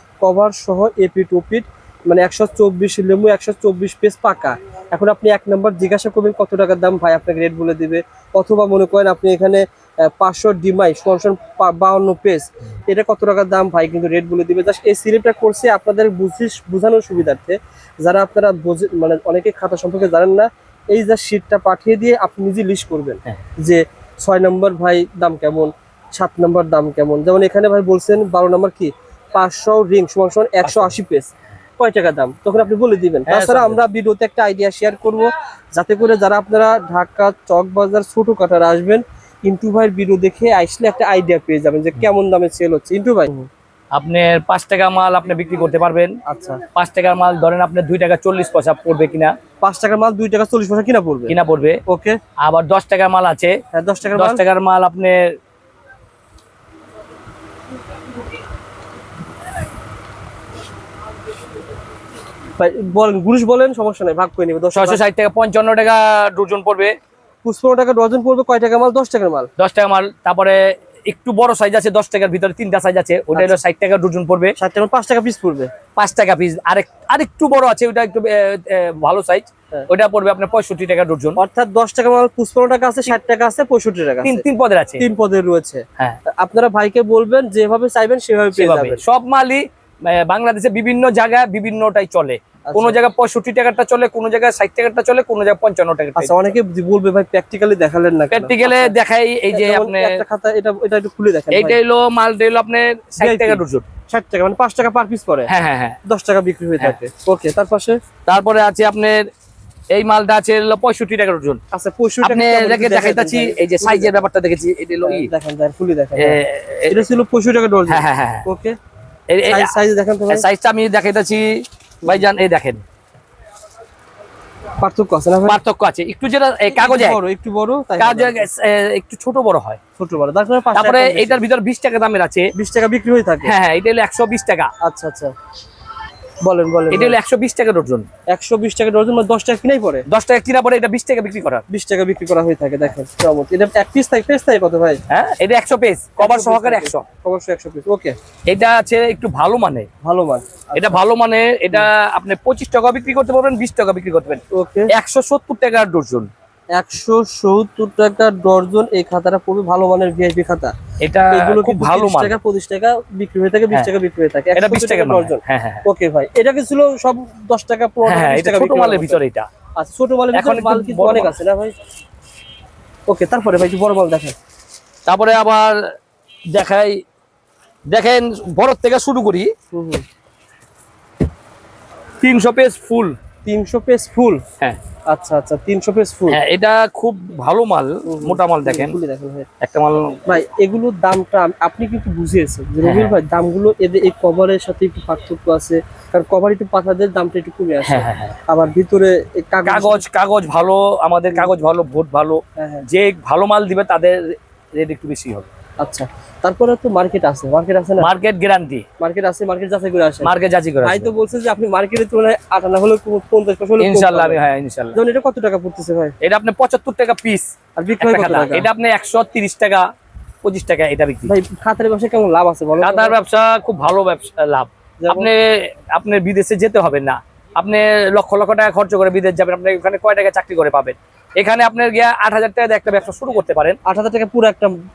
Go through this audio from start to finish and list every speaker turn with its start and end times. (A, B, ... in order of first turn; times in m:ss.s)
0:00.2-0:43.5 A
0:30.6-0:30.9 B
0:33.3-0:33.8 B
0:44.0-0:46.1 B
0:46.3-0:46.6 A
0:46.8-0:49.3 B
0:49.6-0:51.4 A
0:51.3-0:51.8 B
0:51.9-0:52.2 A
0:52.4-0:53.6 B
0:53.7-0:54.4 A
0:54.1-0:55.2 B
1:02.6-1:05.0 A
1:04.8-1:06.9 B
1:07.4-1:09.5 A
1:09.6-1:14.5 B
1:13.3-1:13.6 A
1:14.6-1:15.7 A
1:16.0-1:21.4 B
1:21.4-1:24.4 A
1:24.2-1:25.0 B
1:25.0-1:29.0 A
1:28.6-1:36.3 B
1:32.7-1:33.0 A
1:36.2-1:39.0 A
1:38.3-1:40.2 B
1:39.5-1:41.8 A
1:41.5-1:43.8 B
1:43.2-1:45.5 A
1:45.5-1:46.0 B
1:46.0-1:48.0 A
1:48.3-1:49.3 B
1:49.9-1:51.6 B
1:51.7-1:54.2 A
1:52.2-1:55.3 B
1:55.0-1:58.8 A
1:56.2-1:57.0 B
1:57.9-1:58.5 B
1:59.3-1:59.7 B
1:59.4-2:00.5 A
2:00.3-2:02.8 B
2:04.8-2:05.6 A
2:05.5-2:07.2 B
2:06.7-2:08.5 A
2:08.0-2:09.8 B
2:10.0-2:11.4 A
2:10.8-2:12.5 B
2:12.6-2:13.5 A
2:13.4-2:14.7 B
2:14.8-2:15.3 A
2:16.4-2:17.2 A
2:16.9-2:18.1 B
2:18.3-2:20.0 A
2:20.1-2:21.6 B
2:21.7-2:25.0 A
2:25.1-2:27.0 B
2:26.2-2:28.2 A
2:28.5-2:29.9 B
2:30.0-2:31.0 A
2:30.8-2:34.4 B
2:34.5-2:34.9 A
2:34.9-2:36.3 B
2:36.7-2:40.7 A
2:41.0-2:42.4 B
2:41.3-2:49.2 A
2:44.6-2:45.8 B
2:48.0-2:49.5 B
2:49.8-2:51.7 A
2:50.3-2:51.3 B
2:53.1-2:54.4 A
2:55.1-2:55.8 B
2:56.5-2:57.0 B
2:57.9-2:59.5 B
2:59.7-3:00.0 A
3:02.2-3:03.2 B
3:03.4-3:04.4 A
3:05.1-3:06.4 A
3:06.3-3:09.0 B
3:08.1-3:09.5 A
3:09.6-3:10.2 B
3:10.3-3:20.0 A
3:12.8-3:13.2 B
3:17.9-3:18.4 B
3:19.6-3:25.5 B
3:22.6-3:22.9 A
3:25.8-3:28.1 A
3:28.0-3:28.8 B
3:29.0-3:34.4 A
3:30.2-3:31.1 B
3:33.8-3:35.0 B
3:34.9-3:36.2 A
3:36.2-3:37.5 B
3:37.8-3:38.7 A
3:38.0-3:39.9 B
3:40.4-3:41.3 B
3:41.3-3:43.2 A
3:42.8-3:53.8 B
3:45.0-3:45.3 A
3:53.9-3:54.7 A